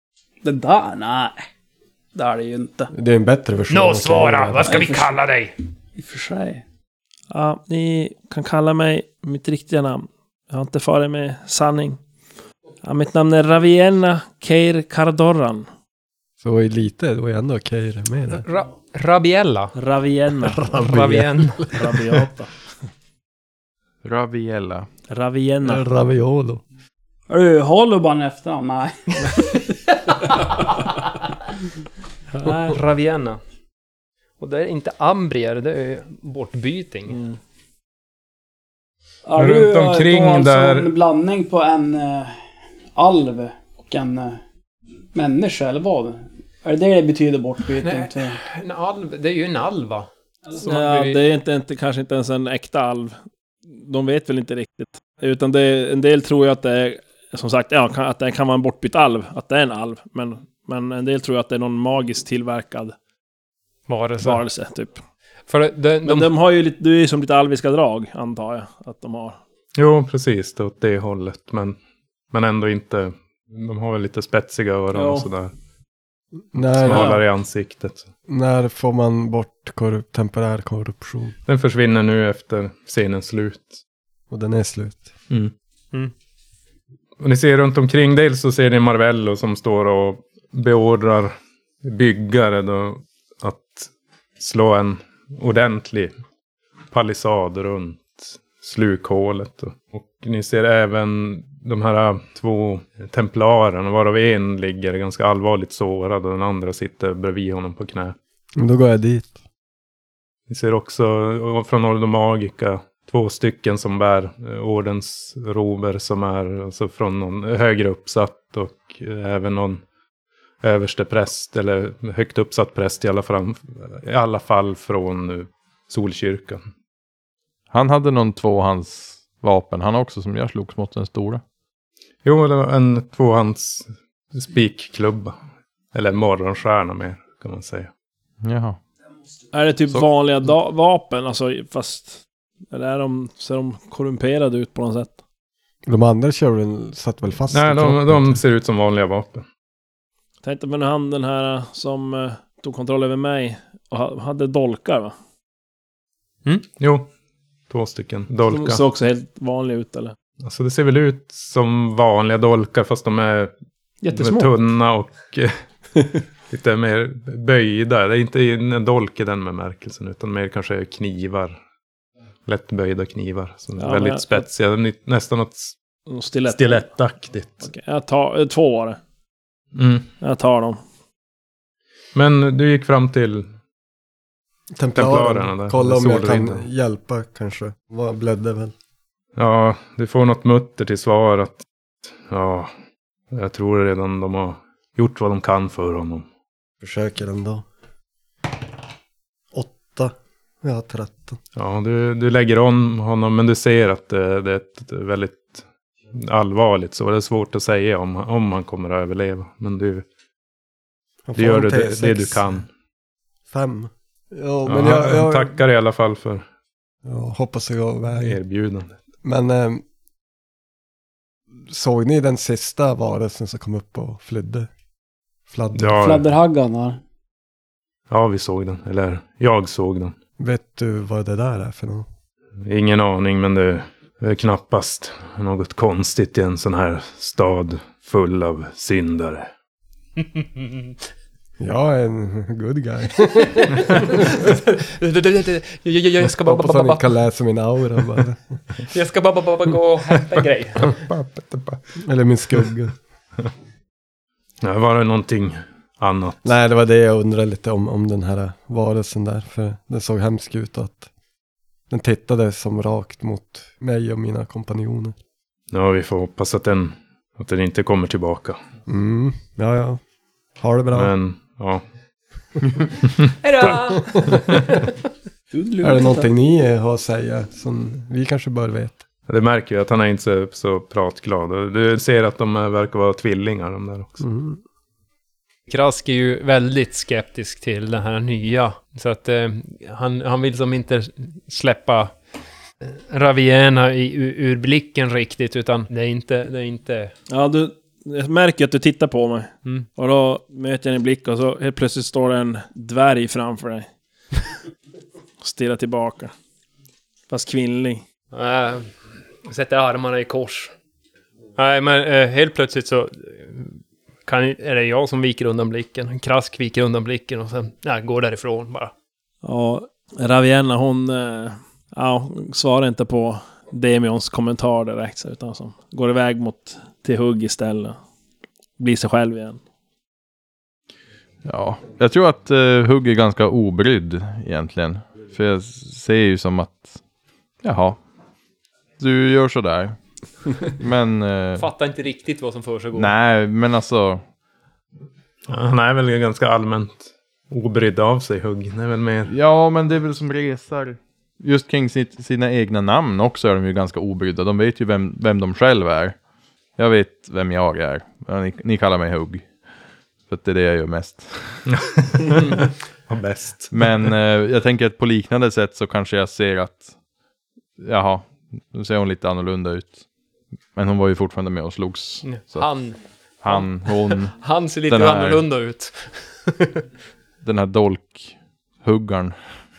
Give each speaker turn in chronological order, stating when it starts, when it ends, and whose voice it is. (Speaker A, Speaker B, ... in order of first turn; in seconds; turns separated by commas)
Speaker A: 0.4-1.4, Speaker A: 2.1-2.9, Speaker B: 2.9-4.8, Speaker C: 3.7-5.5, Speaker A: 4.7-5.2, Speaker A: 6.0-6.6, Speaker D: 7.3-12.0, Speaker D: 12.8-15.7, Speaker B: 16.4-18.4, Speaker C: 18.4-19.7, Speaker D: 19.8-20.8, Speaker B: 20.5-21.3, Speaker C: 20.8-22.0, Speaker D: 21.7-22.5, Speaker E: 24.0-24.9, Speaker D: 25.1-25.8, Speaker B: 25.6-26.6, Speaker A: 27.3-29.6, Speaker D: 32.4-32.7, Speaker C: 32.6-33.4, Speaker C: 34.4-37.2, Speaker D: 37.1-37.4, Speaker A: 39.2-42.4, Speaker F: 39.4-40.9, Speaker A: 43.0-44.4, Speaker A: 45.1-48.4, Speaker C: 47.8-51.2, Speaker D: 50.6-53.2, Speaker D: 53.7-63.0, Speaker C: 63.9-64.4, Speaker D: 64.2-65.0, Speaker C: 65.5-66.3, Speaker D: 66.0-69.4, Speaker F: 69.8-71.8, Speaker F: 72.3-75.5, Speaker A: 74.9-75.3, Speaker B: 76.5-77.2, Speaker F: 76.6-78.1, Speaker D: 76.9-77.2, Speaker B: 78.3-81.4, Speaker F: 81.5-83.8, Speaker B: 84.3-85.1, Speaker F: 87.2-96.1, Speaker F: 96.9-108.1, Speaker B: 108.6-109.4, Speaker F: 110.5-119.8, Speaker F: 120.6-126.6, Speaker E: 127.7-131.4, Speaker F: 132.2-135.4, Speaker F: 135.9-137.9, Speaker E: 138.4-138.8, Speaker D: 139.5-145.2, Speaker B: 145.9-148.4, Speaker F: 147.5-149.4, Speaker D: 150.4-155.1, Speaker F: 156.8-157.1, Speaker F: 157.7-158.8, Speaker D: 158.4-160.1, Speaker F: 160.4-163.5, Speaker D: 164.0-164.6, Speaker F: 164.1-165.6, Speaker F: 166.5-171.6, Speaker F: 172.4-175.8, Speaker D: 173.8-174.5, Speaker D: 176.1-176.9, Speaker F: 176.5-177.7, Speaker D: 177.6-179.0, Speaker F: 179.8-180.1, Speaker D: 180.2-180.8, Speaker F: 182.1-183.5, Speaker B: 184.8-188.7, Speaker F: 184.9-186.6, Speaker F: 189.4-191.6, Speaker F: 192.3-192.7, Speaker F: 193.3-196.2, Speaker B: 196.8-197.6, Speaker B: 199.5-201.4, Speaker F: 201.6-205.6, Speaker F: 206.1-210.1, Speaker B: 211.3-212.4, Speaker F: 211.4-212.7, Speaker B: 213.5-215.6, Speaker F: 214.7-216.4, Speaker B: 217.1-218.4, Speaker F: 218.2-218.9, Speaker B: 219.2-219.8, Speaker B: 221.6-224.7, Speaker B: 225.5-226.0, Speaker F: 225.8-226.2, Speaker A: 226.0-227.0, Speaker F: 228.1-230.1, Speaker B: 230.4-232.1, Speaker F: 232.6-239.5, Speaker C: 240.2-240.9, Speaker B: 241.6-244.3, Speaker C: 243.4-247.1, Speaker B: 246.2-248.4, Speaker C: 248.9-250.9, Speaker F: 250.2-251.8, Speaker B: 252.0-252.9, Speaker F: 254.6-256.4, Speaker B: 256.4-261.1, Speaker B: 261.9-265.1, Speaker F: 265.7-268.6, Speaker B: 268.9-270.0, Speaker B: 270.6-271.1, Speaker F: 270.9-271.8, Speaker F: 273.1-274.6, Speaker C: 273.4-274.9, Speaker A: 275.5-276.3, Speaker B: 275.8-279.0, Speaker F: 279.3-284.2, Speaker B: 284.2-284.6, Speaker C: 285.7-292.2, Speaker C: 292.8-297.1, Speaker D: 297.3-303.9, Speaker D: 305.4-306.3, Speaker D: 307.3-308.0, Speaker C: 308.3-308.9, Speaker C: 309.4-310.7, Speaker C: 311.6-318.9, Speaker D: 319.4-328.0, Speaker D: 328.8-329.6, Speaker E: 331.4-337.0, Speaker E: 337.6-338.0, Speaker E: 339.0-340.0, Speaker E: 340.6-341.6, Speaker C: 341.6-343.1, Speaker E: 343.0-344.2, Speaker F: 345.5-349.3, Speaker E: 349.3-356.2, Speaker E: 356.8-359.5, Speaker E: 360.3-361.6, Speaker F: 361.7-364.1, Speaker E: 363.7-366.9, Speaker E: 367.8-370.0, Speaker E: 370.8-372.8, Speaker C: 372.2-376.8, Speaker E: 373.4-375.4, Speaker E: 377.4-379.4